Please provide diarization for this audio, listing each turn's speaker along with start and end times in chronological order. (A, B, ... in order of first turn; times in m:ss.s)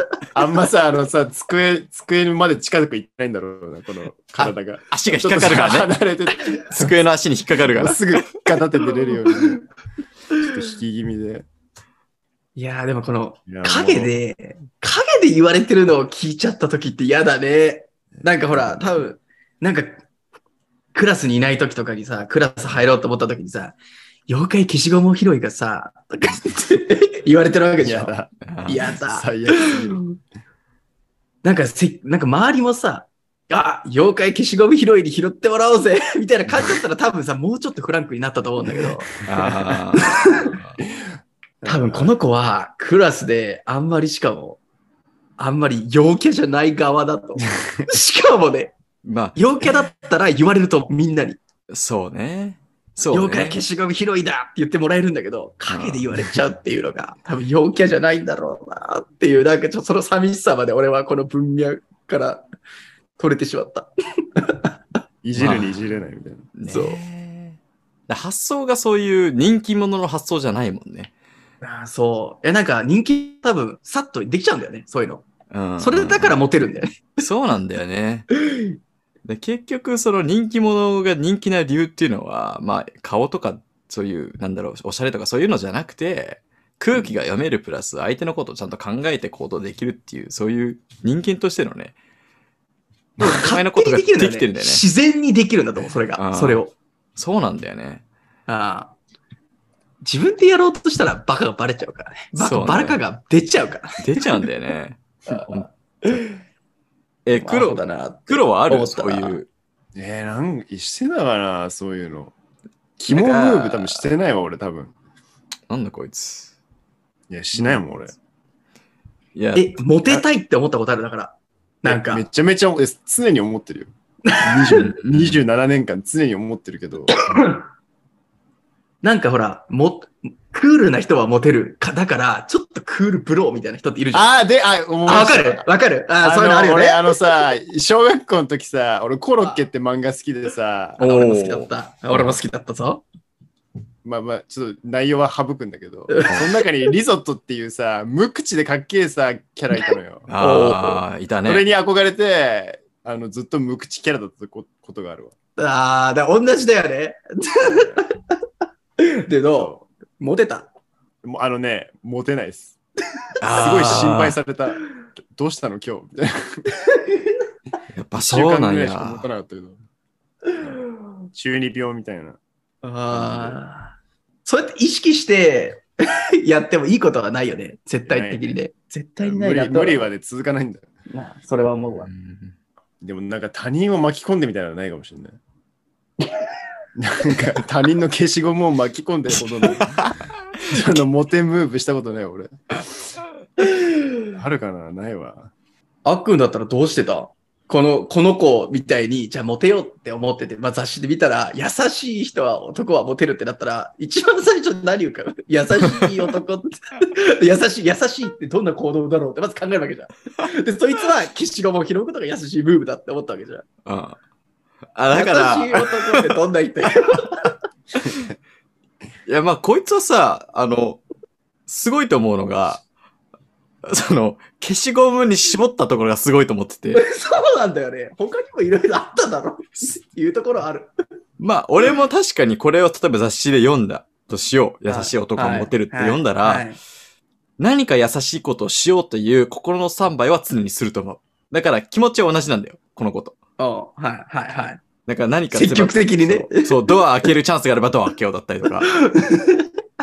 0:00.3-0:07.0 A
0:04.4-0:05.9 B
0:06.7-0:08.2 B
0:07.7-0:09.6 A
0:10.4-0:11.4 A
0:12.6-0:20.0 C
0:13.5-0:14.1 A
0:18.5-0:18.8 A
0:20.9-0:23.8 C
0:24.3-0:28.1 C
0:27.8-0:28.3 A
0:28.4-0:28.8 B
0:28.6-0:30.2 C
0:29.0-0:30.0 A
0:31.4-0:40.6 C
0:39.2-0:40.6 B
0:41.6-0:42.1 A
0:41.6-0:44.6 C
0:45.4-0:48.7 C
0:49.0-0:49.4 B
0:49.3-0:51.4 C
0:51.7-0:53.6 B
0:53.1-1:02.4 C
0:55.7-0:56.3 B
1:03.2-1:04.7 C
1:05.2-1:06.5 A
1:05.4-1:05.8 B
1:06.6-1:11.1 B
1:06.7-1:07.0 C
1:11.6-1:15.3 C
1:15.5-1:16.4 B
1:15.8-1:17.2 C
1:17.2-1:18.3 B
1:18.5-1:18.7 C
1:19.2-1:31.9 B
1:33.2-1:36.7 C
1:33.2-1:34.8 B
1:36.2-1:36.6 B
1:37.2-1:38.0 B
1:38.5-1:38.9 C
1:40.0-1:44.4 C
1:42.4-1:43.0 B
1:44.0-1:46.2 B
1:45.3-1:46.4 C
1:47.2-1:49.5 B
1:47.3-1:49.4 C
1:49.9-1:52.3 A
1:53.0-1:54.9 A
1:53.1-1:54.0 B
1:55.7-1:56.5 B
1:57.3-1:58.1 A
1:57.5-1:57.8 B
1:59.3-1:59.8 B
1:59.5-2:02.2 C
2:01.8-2:07.4 A
2:04.2-2:04.9 C
2:04.7-2:05.4 B
2:07.3-2:07.6 C
2:09.0-2:14.3 C
2:14.1-2:15.7 A
2:15.0-2:17.2 C
2:16.2-2:21.0 A
2:21.0-2:22.3 B
2:21.0-2:23.0 C
2:24.0-2:30.3 A
2:26.1-2:26.5 C
2:30.3-2:31.6 B
2:30.4-2:31.0 C
2:31.4-2:35.3 A
2:35.6-2:38.4 C
2:37.7-2:38.0 A
2:39.0-2:40.7 C
2:39.6-2:39.8 A
2:41.2-2:42.8 A
2:43.4-2:44.4 B
2:43.5-2:46.6 A
2:46.8-2:47.4 C
2:47.9-2:49.2 B
2:48.2-2:49.8 A
2:50.5-2:51.0 C
2:51.3-2:52.4 A
2:52.8-2:55.8 C
2:53.1-2:53.6 A
2:56.4-3:00.1 C
2:58.0-2:58.5 A
2:59.2-3:00.9 A
3:01.1-3:02.1 C
3:02.0-3:02.5 B
3:03.0-3:05.4 A
3:07.0-3:12.8 A
3:13.6-3:14.0 C
3:14.4-3:15.5 A
3:16.0-3:33.6 C
3:33.8-3:34.2 B
3:35.0-3:36.4 B
3:35.1-3:37.6 C
3:39.3-3:41.0 B
3:41.7-3:42.8 B
3:43.8-3:47.0 B
3:46.9-3:50.9 C
3:51.4-3:56.7 B
3:54.9-3:56.8 C
3:57.6-4:03.4 B
4:03.6-4:04.8 C
4:05.0-4:09.0 B
4:05.5-4:07.0 C
4:08.8-4:09.7 C